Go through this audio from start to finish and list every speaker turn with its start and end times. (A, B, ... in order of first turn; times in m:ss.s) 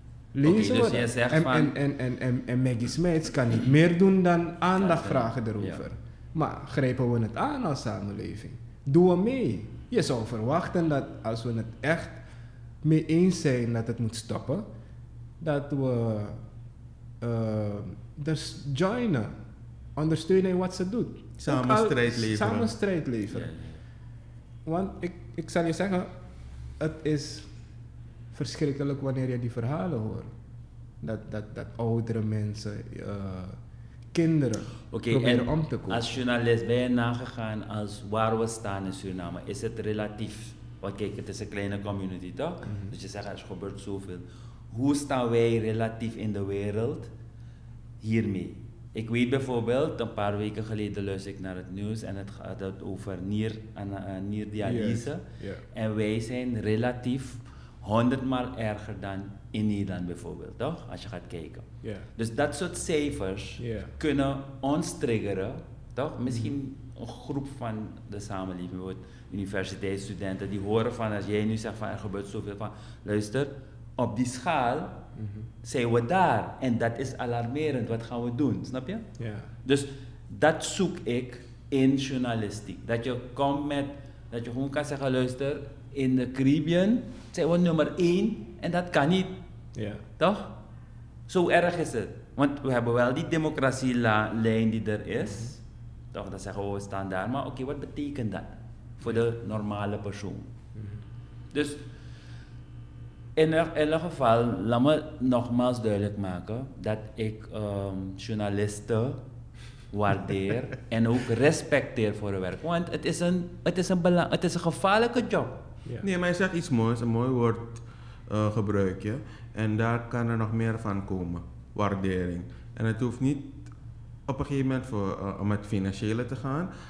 0:00.3-0:12.2 A
0:00.4-0:01.8 B
0:04.8-0:05.8 B
0:12.8-0:14.7 A
0:15.4-0:16.4 A
0:17.2-0:19.4 A
0:20.0-0:23.5 A
0:21.4-0:22.7 C
0:23.3-0:23.8 B
0:24.6-0:26.1 A
0:26.8-0:27.5 A
0:28.3-0:30.3 A
0:31.0-0:33.6 A
0:34.1-0:36.1 A
0:34.9-0:47.1 B
0:42.6-0:42.9 A
0:48.0-1:15.0 B
0:54.6-0:55.6 A
1:01.8-1:02.1 A
1:03.6-1:03.9 A
1:15.2-1:15.5 A
1:15.6-1:19.0 B
1:19.2-1:19.5 A
1:19.6-1:29.4 B
1:29.7-1:30.0 A
1:30.2-1:30.5 B
1:31.3-1:35.6 B
1:36.1-1:40.5 B
1:40.8-1:41.0 A
1:41.5-1:41.8 B
1:43.4-1:49.2 B
1:49.9-1:55.6 B
1:56.0-2:03.7 C
2:04.3-2:06.7 C